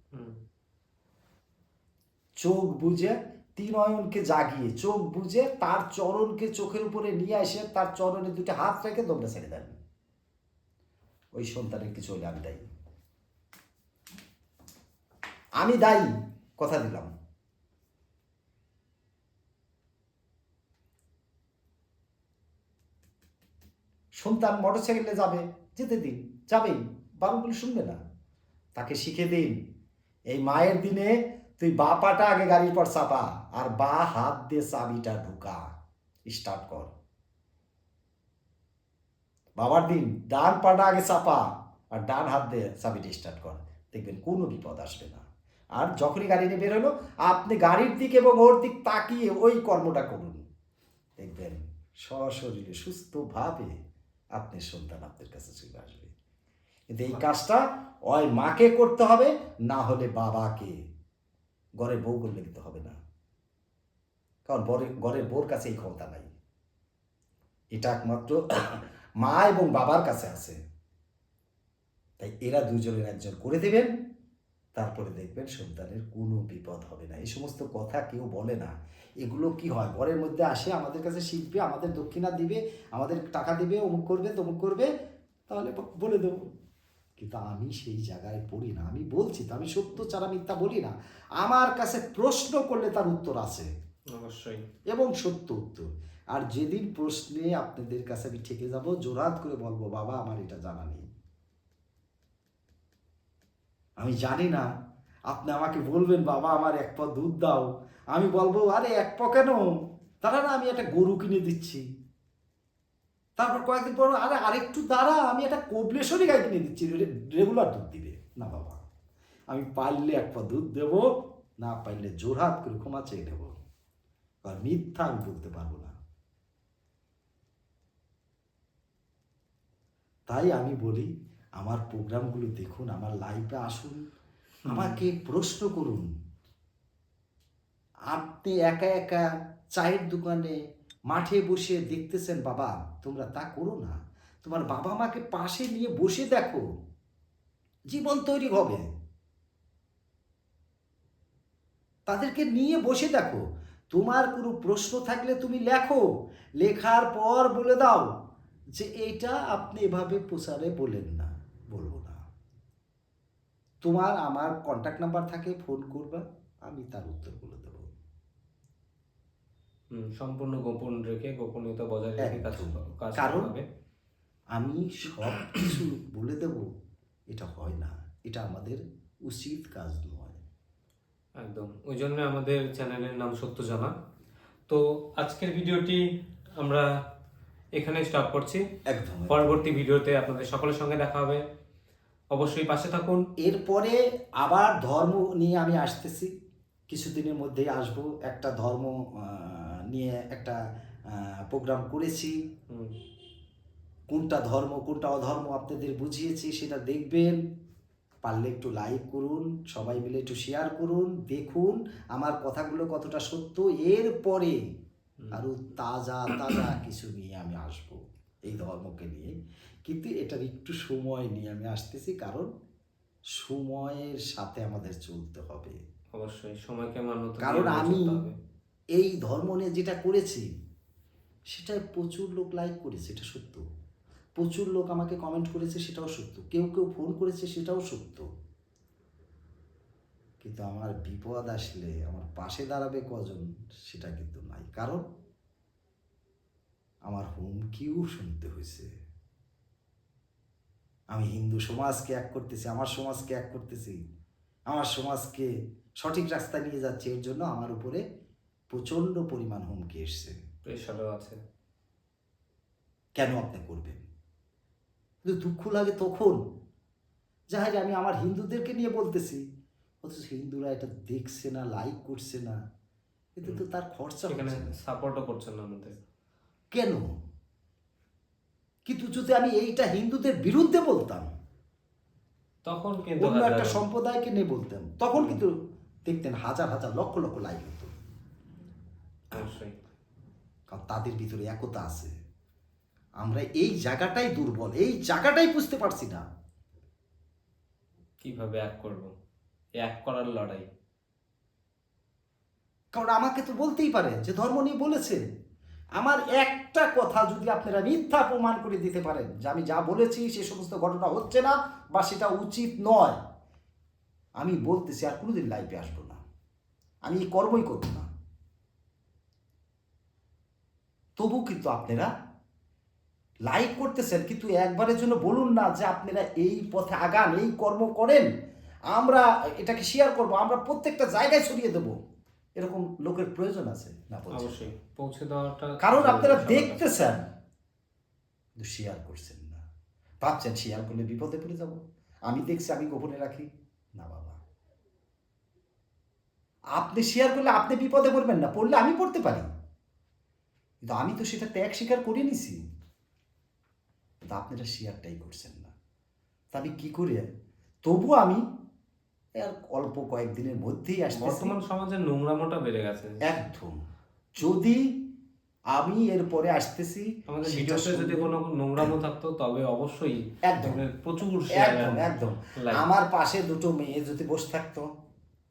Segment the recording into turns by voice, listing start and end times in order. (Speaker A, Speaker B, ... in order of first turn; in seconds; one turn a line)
Speaker A: 2.4-9.8
Speaker A: 11.3-12.7
Speaker A: 15.6-17.1
Speaker A: 24.2-28.0
Speaker A: 28.8-29.6
Speaker A: 30.3-35.6
Speaker A: 36.3-36.9
Speaker A: 39.6-45.2
Speaker A: 45.8-50.4
Speaker A: 51.2-53.7
Speaker A: 54.4-56.1
Speaker A: 56.9-60.8
Speaker A: 61.8-63.0
Speaker A: 64.5-66.3
Speaker A: 67.7-70.6
Speaker A: 72.2-73.9
Speaker A: 74.8-84.9
Speaker A: 85.5-86.5
Speaker A: 87.2-93.7
Speaker B: 94.1-94.6
Speaker A: 94.9-101.1
Speaker A: 104.0-104.7
Speaker A: 105.3-109.6
Speaker A: 110.2-111.8
Speaker A: 113.4-118.8
Speaker A: 119.5-121.1
Speaker A: 121.6-123.5
Speaker A: 124.4-126.0
Speaker A: 130.3-134.0
Speaker B: 134.7-135.0
Speaker A: 134.7-136.1
Speaker A: 138.1-140.6
Speaker A: 141.1-146.6
Speaker A: 147.9-148.9
Speaker A: 152.1-156.0
Speaker A: 156.6-158.1
Speaker A: 158.8-162.2
Speaker A: 163.8-167.9
Speaker B: 169.9-173.7
Speaker A: 172.2-173.5
Speaker A: 174.5-176.7
Speaker A: 177.3-180.4
Speaker B: 181.4-183.9
Speaker B: 184.7-186.1
Speaker B: 186.6-186.9
Speaker B: 187.8-188.6
Speaker A: 188.9-189.6
Speaker B: 189.3-191.4
Speaker B: 192.3-193.2
Speaker A: 193.4-196.3
Speaker A: 196.9-202.4
Speaker A: 204.1-207.4
Speaker A: 208.2-214.6
Speaker A: 215.3-219.3
Speaker A: 219.8-222.5
Speaker A: 223.3-225.8
Speaker B: 226.2-228.3
Speaker A: 227.4-228.2
Speaker A: 228.9-230.5
Speaker A: 231.5-233.6
Speaker A: 234.4-238.3
Speaker A: 240.4-245.0
Speaker A: 247.1-248.9
Speaker A: 251.1-254.0
Speaker A: 254.7-258.0
Speaker A: 258.7-260.4
Speaker B: 260.7-261.4
Speaker A: 263.2-264.1
Speaker A: 265.2-266.4
Speaker A: 267.5-269.4
Speaker A: 270.0-272.6
Speaker A: 273.4-274.8
Speaker B: 274.3-276.0
Speaker A: 276.7-277.1
Speaker A: 278.9-281.3
Speaker B: 282.7-283.8
Speaker A: 283.2-285.5
Speaker B: 285.1-285.4
Speaker A: 286.1-287.9
Speaker B: 289.3-289.7
Speaker A: 290.7-292.1
Speaker A: 293.2-296.2
Speaker B: 298.2-299.1
Speaker B: 299.8-300.7
Speaker A: 302.9-305.2
Speaker A: 306.0-313.2
Speaker A: 314.4-316.2
Speaker A: 317.1-318.1
Speaker A: 321.2-322.1
Speaker A: 323.5-328.3
Speaker A: 328.9-332.0
Speaker A: 332.6-334.7
Speaker B: 334.3-336.9
Speaker A: 335.8-337.2
Speaker A: 338.6-339.6
Speaker A: 340.2-344.4
Speaker A: 346.8-349.5
Speaker A: 350.8-352.6
Speaker A: 354.2-355.7
Speaker A: 356.5-357.3
Speaker A: 357.8-358.4
Speaker A: 359.4-361.5
Speaker B: 361.1-363.3
Speaker A: 363.2-363.8
Speaker A: 364.4-365.0
Speaker A: 365.7-368.9
Speaker B: 367.3-372.9
Speaker A: 370.4-370.8
Speaker A: 371.5-374.9